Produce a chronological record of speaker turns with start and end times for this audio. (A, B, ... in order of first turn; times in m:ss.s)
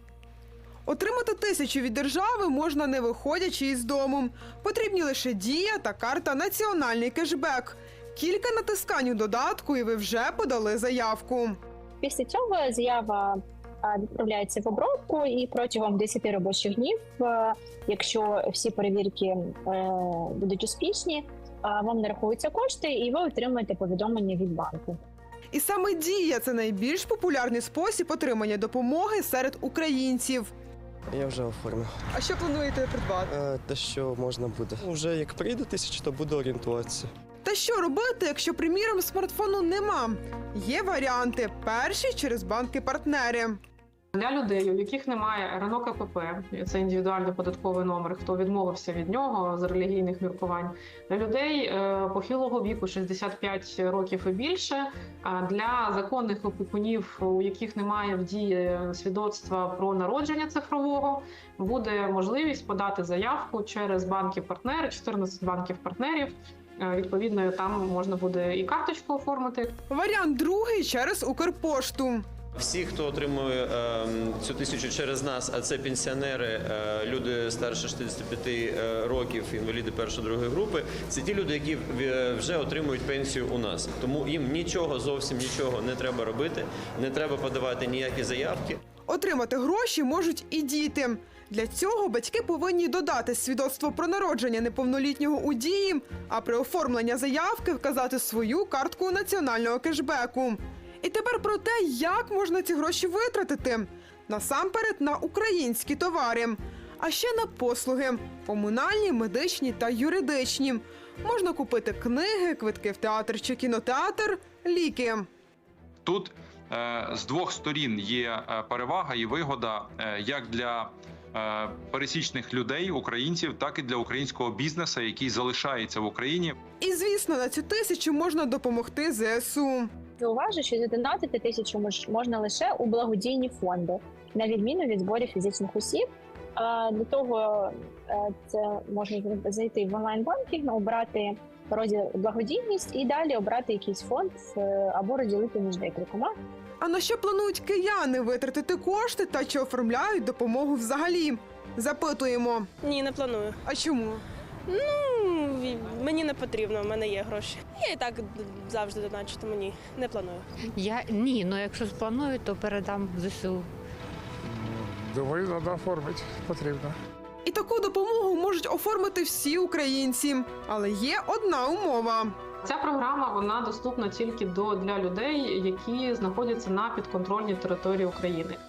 0:00.8-0:11.6 A
0:12.0-0:25.0 B
0:25.5-0:30.5 A
0:31.1-0:31.9 C
0:32.1-0:33.3 A
0:33.3-0:37.1 C
0:37.4-0:43.6 A
0:44.1-1:09.8 D
1:09.9-1:12.2 A
1:12.6-1:28.8 E
1:29.1-1:55.3 A
1:56.0-2:06.5 F
2:06.8-2:09.9 A
2:10.2-2:26.3 B
2:26.8-2:32.7 A
2:32.8-2:33.6 G
2:33.7-2:34.2 A
2:34.7-2:40.4 G
2:40.7-2:43.7 H
2:44.4-2:47.0 I
2:47.4-2:52.4 A
2:52.6-2:58.6 D